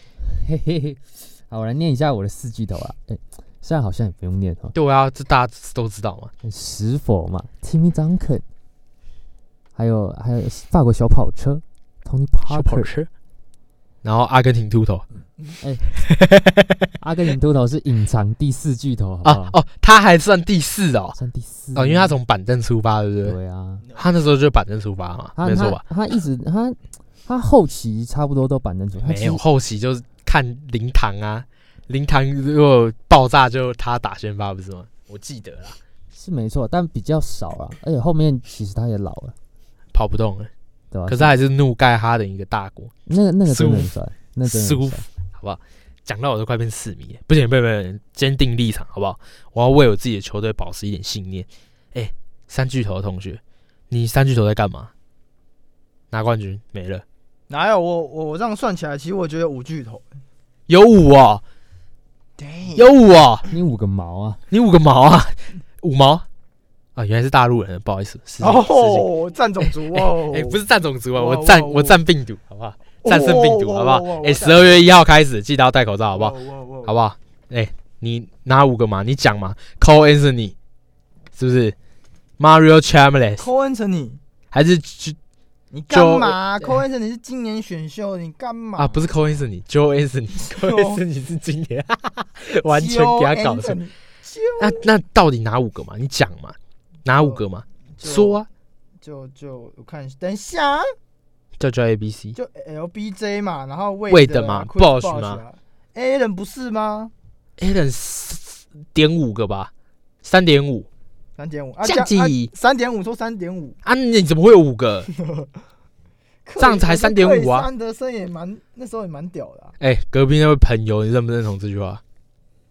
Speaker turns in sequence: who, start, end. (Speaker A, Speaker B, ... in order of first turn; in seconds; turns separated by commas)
Speaker A: 0.2-4.8, Speaker B: 4.8-6.3, Speaker A: 6.4-8.4, Speaker A: 9.8-12.9, Speaker B: 12.5-13.1, Speaker B: 14.0-15.1, Speaker A: 15.6-15.9, Speaker B: 16.0-16.8, Speaker A: 17.0-19.6, Speaker B: 19.2-21.2, Speaker A: 21.2-22.2, Speaker B: 21.8-23.4, Speaker A: 23.2-23.9, Speaker B: 23.9-25.8, Speaker A: 25.4-29.4, Speaker B: 29.0-35.8, Speaker A: 36.1-39.4, Speaker B: 39.9-40.5, Speaker A: 40.9-41.3, Speaker B: 41.1-42.9, Speaker A: 43.1-45.0, Speaker B: 43.5-43.9, Speaker B: 44.4-54.9, Speaker B: 56.1-57.0, Speaker C: 57.5-60.1, Speaker B: 60.7-61.4, Speaker C: 62.4-62.9, Speaker B: 62.8-63.5, Speaker A: 63.5-64.4, Speaker B: 64.5-66.2, Speaker B: 67.0-69.1, Speaker C: 68.4-70.6, Speaker B: 69.7-80.5, Speaker C: 71.2-72.0, Speaker C: 73.0-74.9, Speaker C: 76.1-76.9, Speaker B: 81.4-81.8, Speaker B: 82.4-83.5, Speaker C: 83.4-84.2, Speaker B: 84.5-85.2, Speaker C: 85.7-89.2, Speaker B: 85.9-86.4, Speaker B: 88.8-93.8, Speaker C: 90.4-91.0, Speaker C: 92.7-94.9, Speaker B: 94.6-98.5, Speaker C: 98.0-98.4, Speaker C: 99.0-100.9, Speaker B: 101.6-102.4, Speaker C: 102.3-107.1, Speaker B: 104.1-105.4, Speaker B: 107.6-109.7, Speaker B: 110.2-110.9, Speaker C: 111.4-113.8, Speaker B: 111.8-112.5, Speaker B: 113.8-115.1, Speaker C: 115.1-115.5, Speaker C: 116.5-119.7, Speaker B: 116.6-117.7, Speaker B: 119.8-122.0